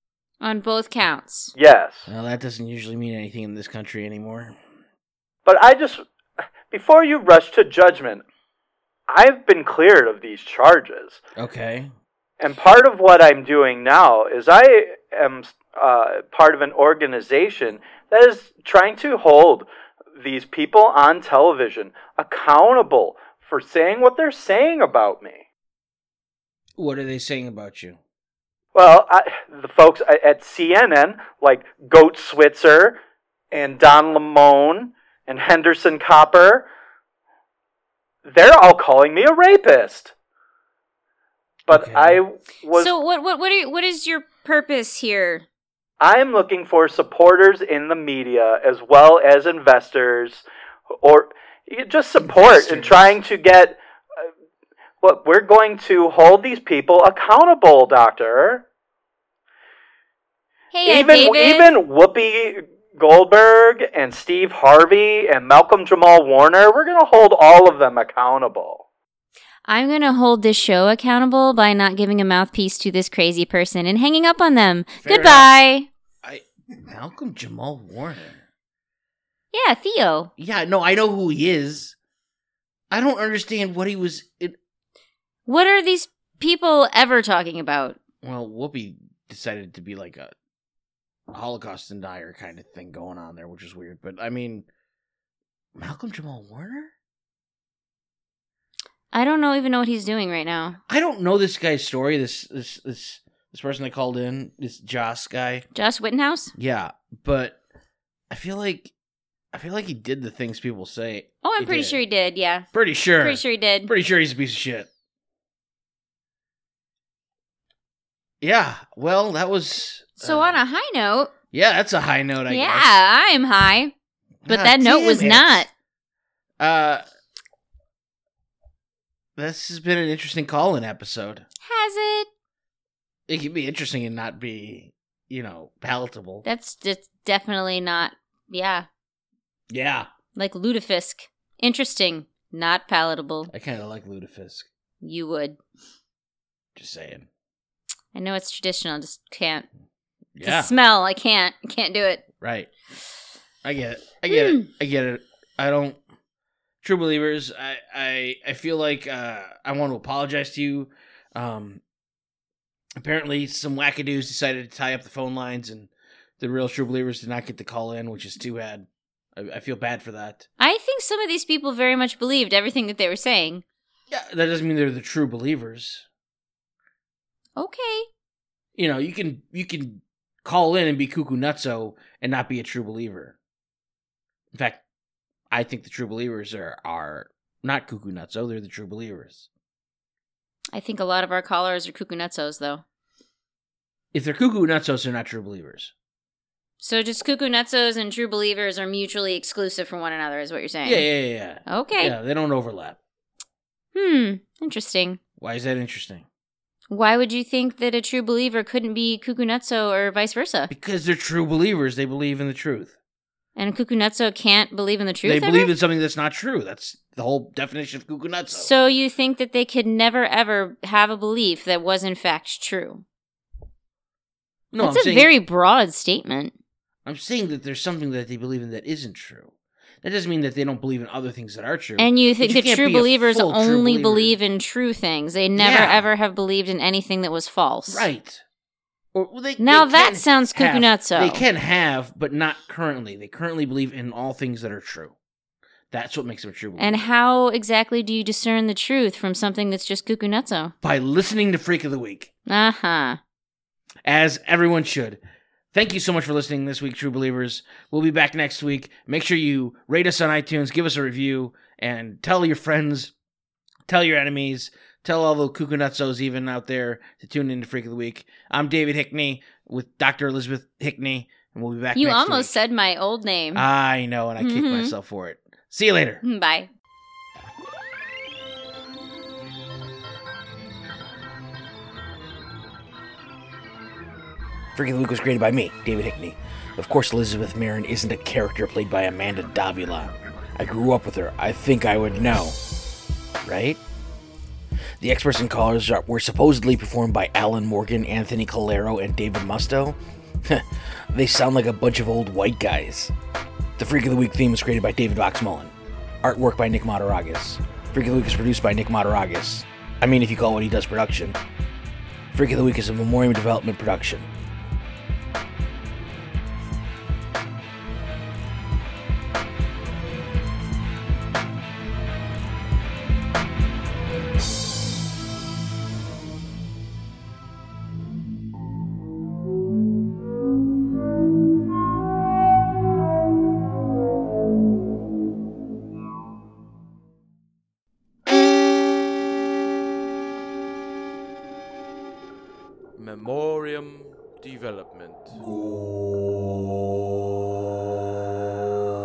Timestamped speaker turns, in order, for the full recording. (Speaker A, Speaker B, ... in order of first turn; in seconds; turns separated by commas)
Speaker A: 0.4-1.5, Speaker B: 1.6-2.1, Speaker C: 2.1-4.6, Speaker B: 5.4-6.0, Speaker B: 6.7-8.2, Speaker B: 9.1-11.2, Speaker C: 11.4-11.9, Speaker B: 12.4-25.4, Speaker C: 26.8-28.0, Speaker B: 28.7-33.0, Speaker B: 33.5-36.7, Speaker B: 38.2-40.1, Speaker B: 41.7-42.9, Speaker C: 41.7-42.2, Speaker A: 42.7-45.4, Speaker B: 46.0-50.5, Speaker B: 51.0-53.8, Speaker C: 52.2-53.0, Speaker B: 55.0-58.6, Speaker A: 60.7-61.7, Speaker B: 60.8-68.8, Speaker A: 69.7-75.9, Speaker C: 75.0-75.5, Speaker C: 76.2-78.4, Speaker A: 79.5-80.3, Speaker C: 80.4-82.0, Speaker C: 82.9-84.5, Speaker A: 85.5-88.0, Speaker C: 88.2-90.3, Speaker C: 91.3-94.7, Speaker C: 95.8-96.9, Speaker A: 99.1-100.8, Speaker C: 100.9-105.7, Speaker A: 105.7-106.5, Speaker C: 106.5-107.6, Speaker C: 108.3-108.9, Speaker C: 109.5-112.0, Speaker A: 111.4-112.7, Speaker C: 112.7-114.9, Speaker A: 113.2-113.9, Speaker C: 118.4-120.6, Speaker A: 120.2-121.3, Speaker C: 121.5-123.0, Speaker A: 122.5-123.9, Speaker C: 124.4-125.7, Speaker A: 124.5-125.7, Speaker C: 126.6-127.0, Speaker C: 129.3-131.4, Speaker A: 131.6-132.3, Speaker C: 133.3-136.4, Speaker A: 136.4-138.9, Speaker C: 139.7-140.1, Speaker A: 140.3-143.5, Speaker C: 143.5-144.7, Speaker A: 145.0-145.6, Speaker C: 146.8-147.3, Speaker A: 148.1-149.7, Speaker C: 150.3-150.7, Speaker A: 150.4-152.2, Speaker C: 152.4-152.7, Speaker C: 153.6-156.0, Speaker A: 154.3-154.7, Speaker C: 156.8-161.8, Speaker C: 163.0-170.5, Speaker A: 170.6-173.6, Speaker C: 174.1-176.1, Speaker A: 177.6-178.1, Speaker C: 178.8-183.3, Speaker C: 184.5-184.8, Speaker C: 185.5-189.5, Speaker A: 190.7-192.8, Speaker C: 194.1-195.9, Speaker A: 196.8-201.1, Speaker C: 200.8-203.0, Speaker A: 201.7-202.1, Speaker A: 203.9-205.2, Speaker C: 205.4-206.2, Speaker A: 206.9-210.7, Speaker C: 210.7-212.9, Speaker A: 213.6-215.7, Speaker C: 215.2-218.7, Speaker A: 218.5-223.0, Speaker C: 224.7-225.3, Speaker A: 224.8-226.5, Speaker C: 227.0-229.5, Speaker C: 230.0-234.3, Speaker A: 232.0-238.1, Speaker C: 235.6-236.1, Speaker C: 237.9-238.4, Speaker C: 239.1-245.1, Speaker A: 239.6-241.4, Speaker C: 245.9-247.1, Speaker A: 246.8-250.7, Speaker C: 250.8-252.3, Speaker A: 252.5-253.2, Speaker C: 254.0-255.2, Speaker C: 255.7-263.1, Speaker C: 263.9-272.6, Speaker A: 271.9-273.6, Speaker C: 273.5-276.2, Speaker A: 274.4-274.9, Speaker A: 276.2-276.7, Speaker C: 284.7-292.6, Speaker C: 293.4-293.8, Speaker C: 295.0-303.1, Speaker C: 303.8-311.4, Speaker C: 312.3-314.3, Speaker C: 342.9-345.5